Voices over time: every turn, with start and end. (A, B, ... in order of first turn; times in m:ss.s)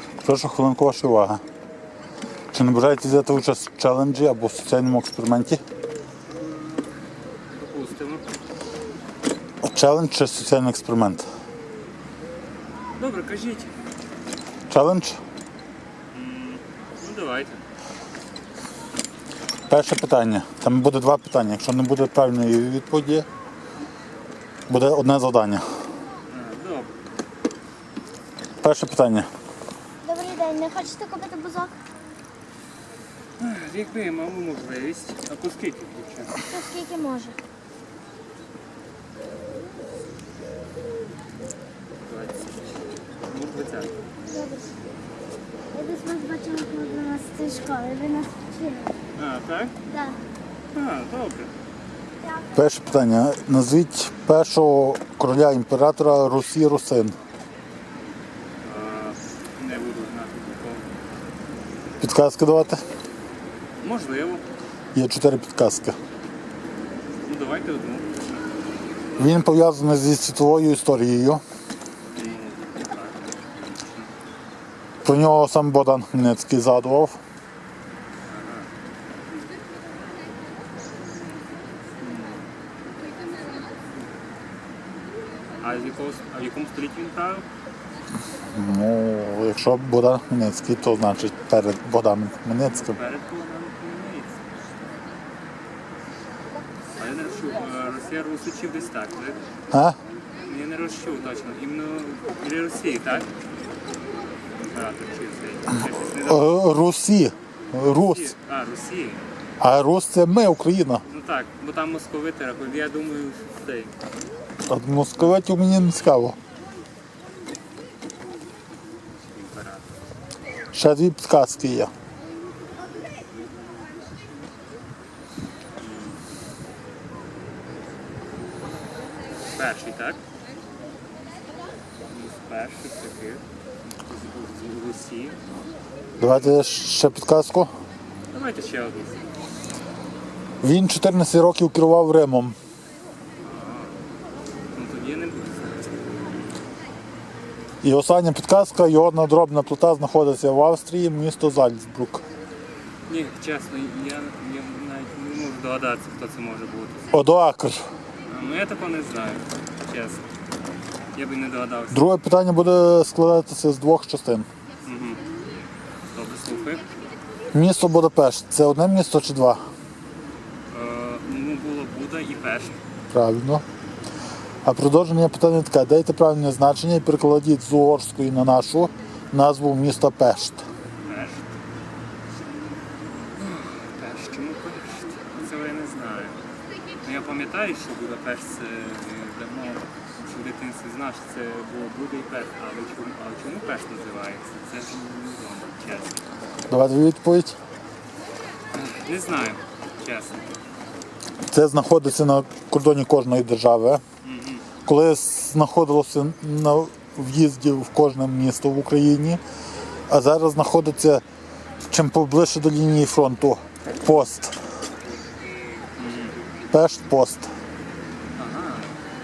0:00.2-0:01.4 A
0:02.5-0:05.6 A
0:06.4-0:06.9 B
0:07.5-0:08.3 B
0:09.6-0:11.3 A
0:13.0-0:13.8 B
0:14.7-0:15.2 A
0:16.1-0:17.6 B
0:19.7-0:23.3 A
0:24.7-0:25.6 A
0:26.3-0:26.9 B
0:28.6-0:29.3 A
0:30.0-0:31.7 C
0:33.4-0:36.4 B
0:36.5-0:37.4 C
0:42.1-0:44.0 B
0:44.3-0:44.7 C
0:45.7-0:49.0 C
0:49.2-0:49.7 B
0:49.9-0:50.2 C
0:50.7-0:51.5 B
0:52.5-0:57.2 A
0:58.6-1:00.8 B
1:02.0-1:02.8 A
1:03.8-1:04.4 B
1:05.0-1:06.0 A
1:07.2-1:08.4 B
1:09.2-1:11.4 A
1:12.1-1:14.1 B
1:15.0-1:17.2 A
1:18.3-1:18.7 B
1:22.0-1:22.5 B
1:25.6-1:27.5 B
1:28.5-1:33.0 A
1:32.6-1:34.6 B
1:37.0-1:39.4 B
1:39.7-1:40.0 A
1:40.4-1:43.3 B
1:44.7-1:46.5 B
1:46.2-1:48.3 A
1:47.8-1:49.2 B
1:49.6-1:51.0 A
1:51.1-1:53.9 B
1:54.7-1:56.4 A
1:59.3-1:59.9 B
2:00.7-2:01.9 A
2:05.8-2:06.2 B
2:09.5-2:10.2 B
2:12.1-2:13.4 B
2:14.0-2:15.4 B
2:16.2-2:17.7 A
2:18.3-2:19.2 B
2:20.6-2:22.6 A
2:23.4-2:24.0 B
2:24.7-2:26.0 B
2:27.8-2:32.2 A
2:33.1-2:37.1 B
2:37.1-2:37.8 A
2:38.3-2:40.2 B
2:41.2-2:42.0 B
2:41.9-2:44.5 A
2:44.8-2:45.2 B
2:46.1-2:46.9 B
2:47.5-2:49.6 A
2:50.7-2:52.8 B
2:53.1-2:53.6 A
2:54.6-3:00.6 A
3:01.0-3:01.5 B
3:03.4-3:06.4 B
3:07.0-3:16.2 B
3:16.7-3:17.6 A
3:18.7-3:20.4 B
3:21.5-3:24.0 A
3:24.2-3:24.6 B
3:24.8-3:29.4 A
3:30.1-3:31.2 A
3:31.9-3:34.6 A
3:35.8-3:36.4 B
3:36.7-3:37.5 A
3:38.4-3:38.9 B